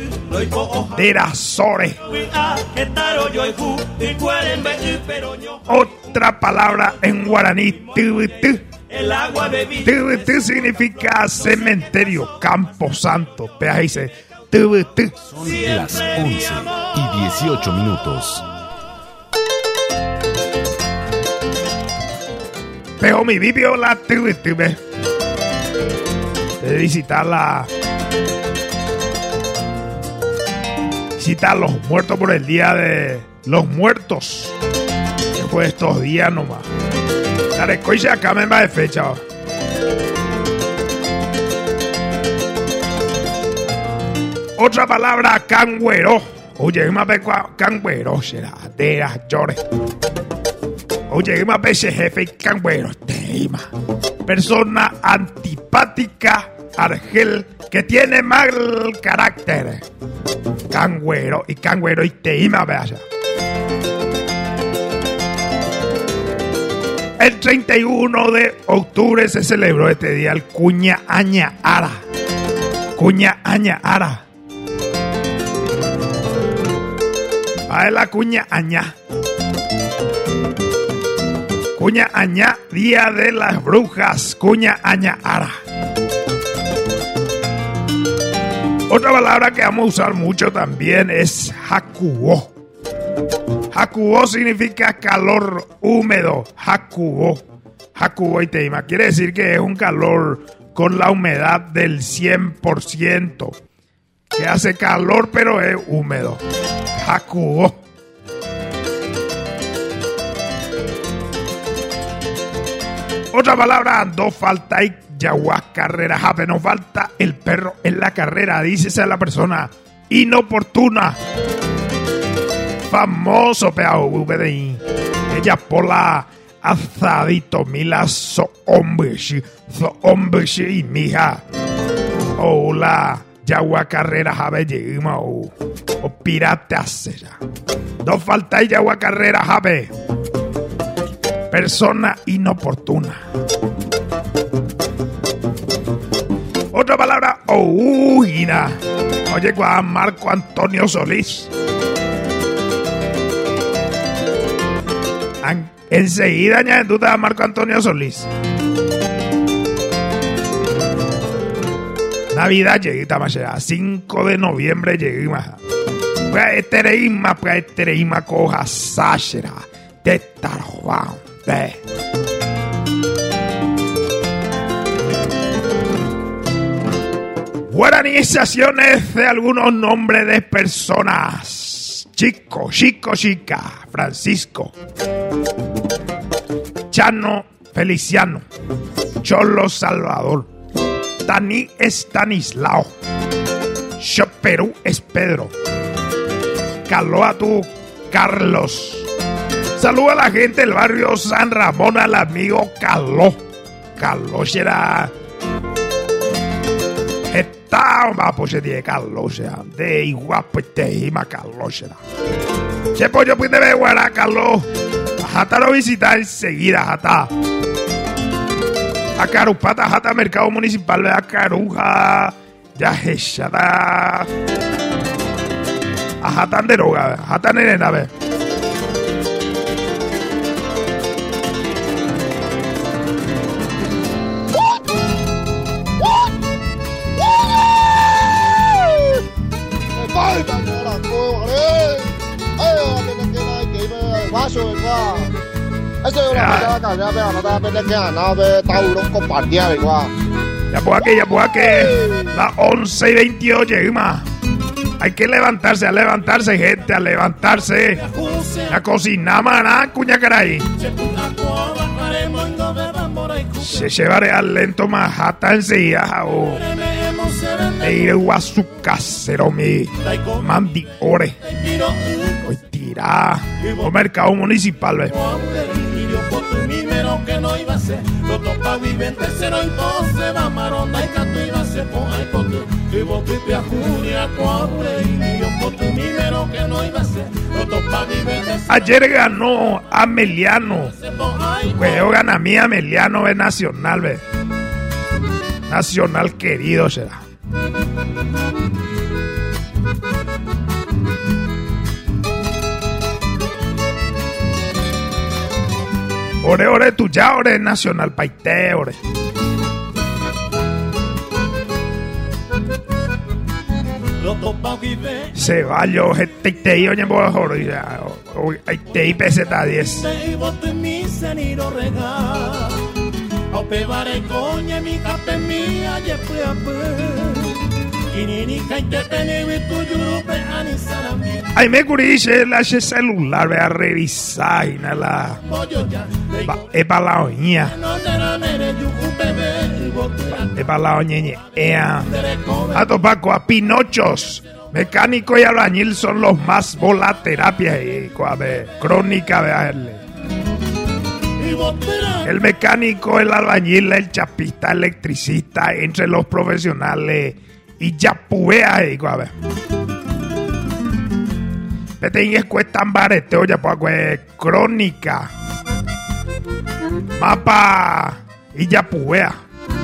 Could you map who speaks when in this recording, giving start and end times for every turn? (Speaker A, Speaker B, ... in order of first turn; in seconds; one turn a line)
Speaker A: 0.3-1.1
Speaker B: 0.9-1.9
Speaker A: 2.0-5.7
Speaker B: 5.7-8.6
Speaker A: 8.9-10.5
Speaker B: 9.8-15.1
Speaker C: 15.3-18.4
Speaker A: 15.4-16.9
Speaker B: 23.0-24.8
Speaker B: 26.6-27.6
Speaker B: 31.2-34.5
Speaker B: 35.4-36.6
Speaker B: 37.5-39.2
Speaker B: 44.6-49.6
Speaker B: 51.1-53.6
Speaker B: 54.3-59.8
Speaker B: 60.7-63.0
Speaker B: 67.2-72.0
Speaker B: 73.0-74.2
Speaker B: 77.7-78.9
Speaker B: 81.8-85.5
Speaker B: 88.9-92.5
Speaker B: 93.7-97.4
Speaker B: 98.0-103.5
Speaker B: 104.3-106.4
Speaker B: 107.0-107.7
Speaker B: 113.3-121.1
Speaker B: 122.9-124.8
Speaker B: 125.3-131.4
Speaker B: 132.4-135.5
Speaker B: 136.0-137.3
Speaker B: 138.0-139.9
Speaker B: 141.5-143.2
Speaker B: 146.7-148.7
Speaker B: 149.3-151.5
Speaker B: 155.4-158.2
Speaker B: 162.3-165.6
Speaker B: 166.3-171.7
Speaker B: 177.7-184.7
Speaker B: 186.9-188.4
Speaker B: 189.2-190.4
Speaker B: 191.3-192.9
Speaker B: 194.0-195.5
Speaker B: 196.9-199.0
Speaker B: 199.8-203.3
Speaker B: 204.0-205.1
Speaker B: 207.3-211.9
Speaker B: 212.9-214.6
Speaker B: 215.2-217.3
Speaker B: 219.2-224.2
Speaker B: 226.2-228.1
Speaker D: 239.9-245.3
Speaker D: 246.0-250.1
Speaker B: 246.3-246.7
Speaker B: 250.7-254.2
Speaker B: 255.0-258.0
Speaker E: 257.9-258.8
Speaker B: 258.7-260.6
Speaker E: 260.7-263.9
Speaker B: 263.7-266.6
Speaker E: 266.4-268.1
Speaker B: 267.8-271.3
Speaker E: 270.0-272.4
Speaker B: 272.5-275.1
Speaker E: 273.6-274.0
Speaker E: 275.1-288.9
Speaker B: 288.7-290.9
Speaker E: 290.8-292.1
Speaker B: 291.8-294.2
Speaker B: 295.7-297.2
Speaker B: 306.4-308.9
Speaker E: 314.2-315.3
Speaker B: 315.4-320.0
Speaker E: 319.8-322.8
Speaker E: 323.5-327.6
Speaker E: 328.1-331.5
Speaker B: 331.6-335.4
Speaker E: 335.4-336.6
Speaker B: 336.5-337.7
Speaker E: 337.6-340.5
Speaker B: 340.6-342.1
Speaker E: 342.0-343.0
Speaker B: 342.7-350.0
Speaker E: 351.4-352.4
Speaker B: 352.2-359.3
Speaker B: 362.0-365.3
Speaker B: 367.2-369.3